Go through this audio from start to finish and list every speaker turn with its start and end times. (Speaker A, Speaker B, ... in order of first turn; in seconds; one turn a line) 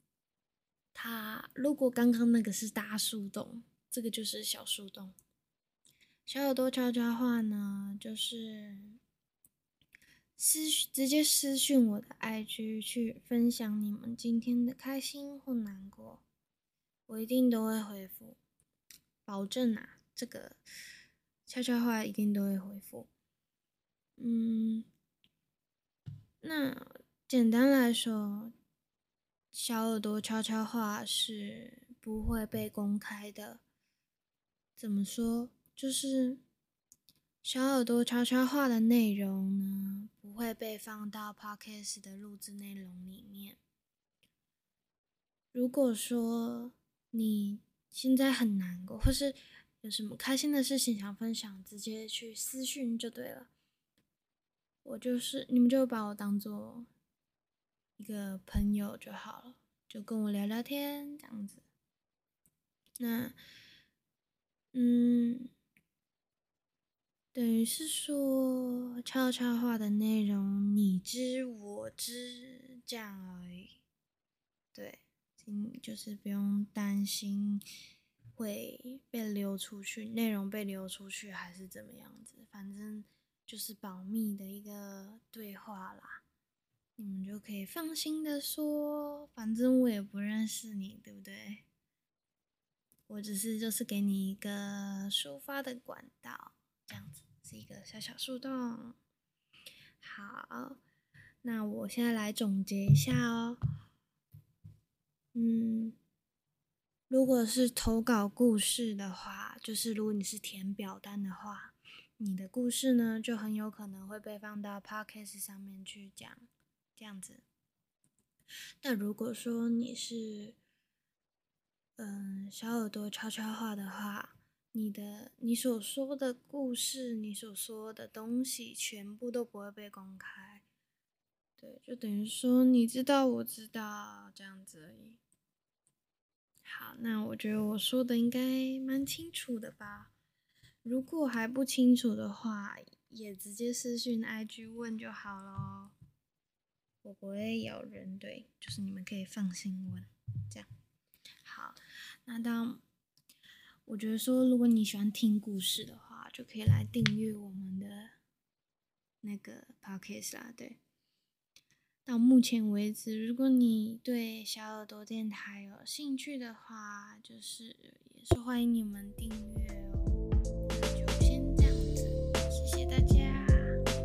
Speaker A: 0.9-5.1
Speaker A: 6.2-9.0
Speaker A: 10.4-16.2
Speaker A: 17.1-18.4
Speaker A: 19.2-20.6
Speaker A: 21.4-23.1
Speaker A: 24.2-24.9
Speaker A: 26.4-28.5
Speaker A: 29.5-33.6
Speaker A: 34.8-36.4
Speaker A: 37.4-43.6
Speaker A: 45.5-53.5
Speaker A: 54.8-56.9
Speaker A: 58.0-61.6
Speaker A: 63.0-63.4
Speaker A: 64.7-65.5
Speaker A: 67.3-73.8
Speaker A: 74.7-77.6
Speaker A: 78.3-86.2
Speaker A: 87.0-91.7
Speaker A: 93.1-99.0
Speaker A: 100.0-100.8
Speaker A: 101.4-103.6
Speaker A: 105.3-106.0
Speaker A: 107.1-117.4
Speaker A: 118.8-120.6
Speaker A: 122.0-130.6
Speaker A: 131.6-135.2
Speaker A: 136.6-140.1
Speaker A: 140.8-145.9
Speaker A: 147.0-150.7
Speaker A: 151.4-152.8
Speaker A: 153.8-158.1
Speaker A: 159.2-160.8
Speaker A: 162.1-173.8